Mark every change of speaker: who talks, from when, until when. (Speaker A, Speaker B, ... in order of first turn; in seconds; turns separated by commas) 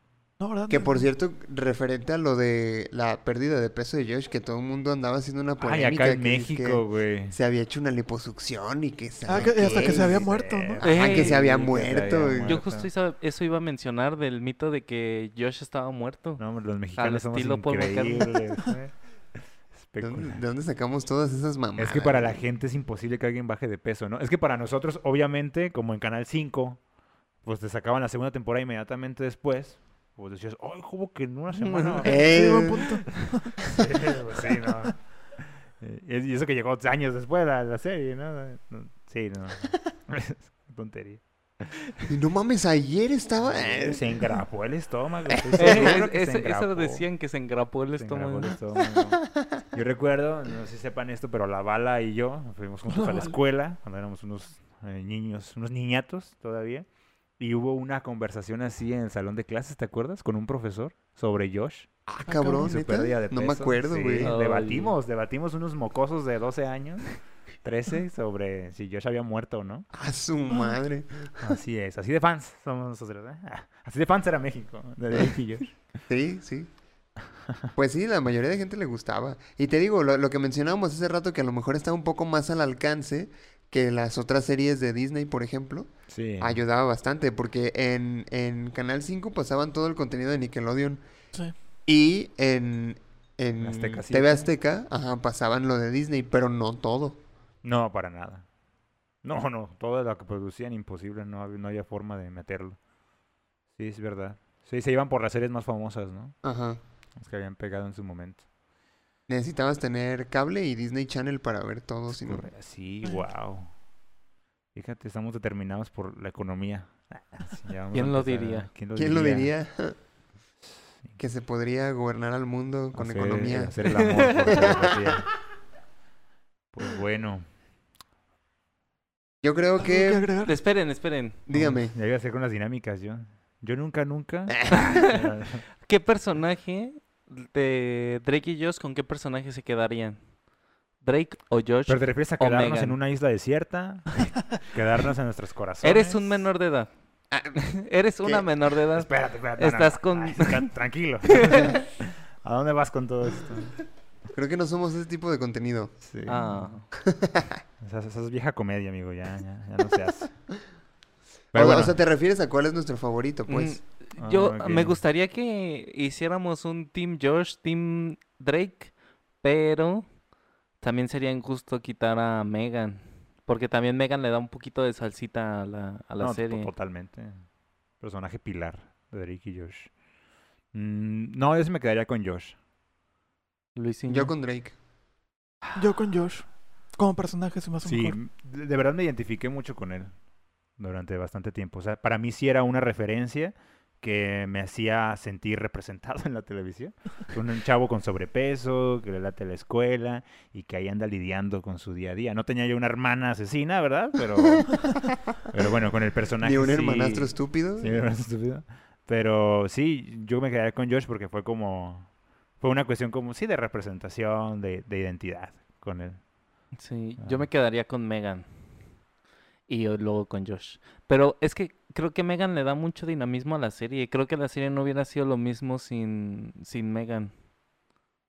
Speaker A: 0.4-1.1, Speaker B: 0.7-12.6, Speaker C: 5.6-7.3, Speaker A: 9.2-10.8, Speaker C: 9.3-12.9, Speaker D: 10.8-11.4, Speaker D: 12.4-16.4, Speaker C: 16.4-18.9, Speaker D: 17.0-18.4, Speaker C: 19.7-20.4, Speaker B: 20.0-22.4, Speaker C: 21.8-26.8, Speaker C: 27.4-35.0, Speaker D: 31.5-32.0, Speaker B: 32.0-33.0, Speaker A: 32.0-33.6, Speaker C: 35.8-41.9, Speaker B: 42.1-44.2, Speaker C: 43.4-47.0, Speaker B: 45.3-46.0, Speaker D: 45.6-48.5, Speaker C: 48.0-56.9, Speaker A: 52.9-53.4, Speaker C: 57.4-61.9, Speaker B: 62.1-64.3, Speaker A: 62.3-62.7, Speaker C: 62.5-69.9, Speaker D: 64.2-64.9, Speaker B: 69.9-71.5, Speaker C: 71.4-75.8, Speaker B: 76.1-76.7, Speaker B: 77.7-91.0, Speaker C: 86.1-86.6, Speaker B: 91.9-97.2, Speaker C: 93.6-94.5, Speaker C: 97.6-98.5, Speaker C: 99.2-102.8, Speaker C: 103.8-106.3, Speaker B: 106.4-106.8, Speaker C: 107.2-108.4, Speaker B: 109.3-112.5, Speaker C: 112.1-113.7, Speaker C: 114.7-119.5, Speaker D: 117.9-118.7, Speaker B: 119.0-120.0, Speaker B: 121.2-123.8, Speaker C: 122.9-125.3, Speaker D: 123.9-124.3, Speaker B: 124.5-125.2, Speaker C: 126.7-127.4, Speaker B: 129.4-130.3, Speaker A: 129.8-130.6, Speaker D: 130.4-131.4, Speaker B: 131.5-131.9, Speaker C: 131.5-135.6, Speaker B: 134.5-135.0, Speaker D: 134.7-135.2, Speaker D: 135.8-140.2, Speaker D: 141.0-143.0, Speaker C: 141.9-146.4, Speaker D: 145.8-146.9, Speaker B: 147.3-147.6, Speaker D: 147.5-150.7, Speaker C: 148.9-153.7, Speaker D: 151.2-151.8, Speaker B: 154.3-155.9, Speaker C: 156.0-156.8, Speaker D: 156.3-156.8, Speaker B: 157.0-157.6, Speaker C: 157.8-160.3, Speaker C: 161.5-161.9, Speaker B: 161.5-163.8, Speaker D: 163.5-170.1, Speaker C: 164.2-165.0, Speaker D: 170.8-176.7, Speaker C: 176.2-177.4, Speaker C: 178.0-179.9, Speaker C: 180.7-182.5, Speaker D: 183.8-184.3, Speaker B: 184.1-184.7, Speaker A: 185.8-186.4, Speaker A: 187.0-188.2, Speaker C: 187.8-190.1, Speaker C: 190.8-212.1, Speaker B: 204.4-205.1, Speaker B: 206.4-208.0, Speaker C: 212.6-216.2, Speaker D: 216.8-218.4, Speaker C: 217.2-217.4, Speaker D: 219.7-227.3